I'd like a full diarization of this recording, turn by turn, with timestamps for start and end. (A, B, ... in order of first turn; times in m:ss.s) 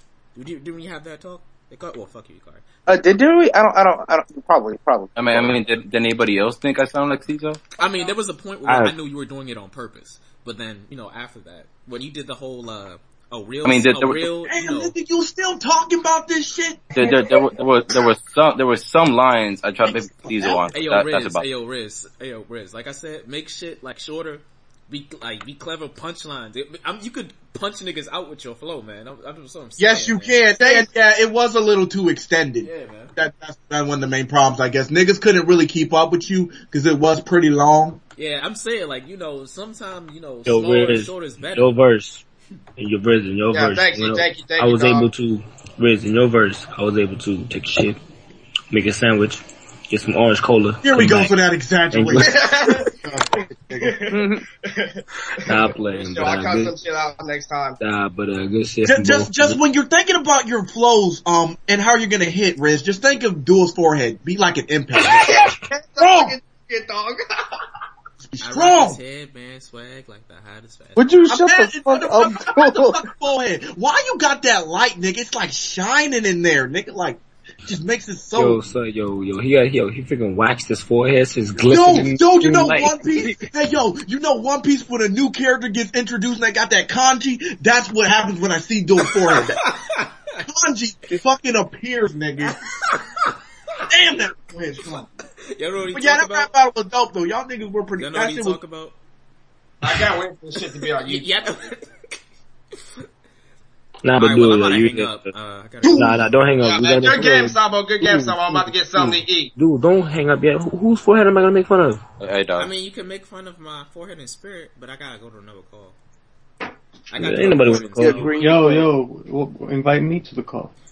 0:00.3-0:03.0 A
0:02.9-0:05.6 B
0:05.2-0:07.6 C
0:07.8-0:14.9 A
0:08.6-0:08.9 D
0:13.6-0:14.3 C
0:14.3-0:18.0 E
0:16.9-0:21.5 C
0:19.8-0:20.7 E
0:20.6-0:30.5 A
0:29.8-0:38.0 E
0:32.6-0:33.1 A
0:38.2-0:41.8 A
0:40.4-0:42.2 D
0:42.8-0:48.0 D
0:43.5-0:45.1 F
0:48.7-0:51.4 D
0:50.8-0:52.4 E
0:51.9-0:52.4 D
0:52.5-0:52.8 F
0:52.9-0:53.9 E
0:54.1-0:54.4 B
0:55.4-0:56.8 D
0:56.1-0:57.8 F
0:57.8-0:59.6 D
0:58.8-1:05.3 E
1:05.2-1:07.2 F
1:06.0-1:06.4 E
1:08.2-1:09.0 E
1:08.4-1:11.1 A
1:11.0-1:13.0 B
1:11.2-1:18.6 E
1:18.3-1:23.0 D
1:21.6-1:29.6 E
1:29.3-1:30.1 A
1:30.4-1:32.6 E
1:32.5-1:33.3 A
1:33.9-1:35.1 E
1:35.3-1:36.5 A
1:35.9-1:38.6 E
1:37.9-1:38.9 A
1:39.8-1:41.3 F
1:39.8-1:40.2 A
1:40.7-1:41.8 A
1:44.0-1:45.3 D
1:44.2-1:46.3 A
1:45.8-1:52.0 D
1:46.6-1:49.5 F
1:52.2-1:52.7 C
1:52.5-1:56.0 A
1:57.1-1:58.4 A
1:57.1-1:58.3 D
1:58.0-1:58.9 B
1:58.0-2:00.7 G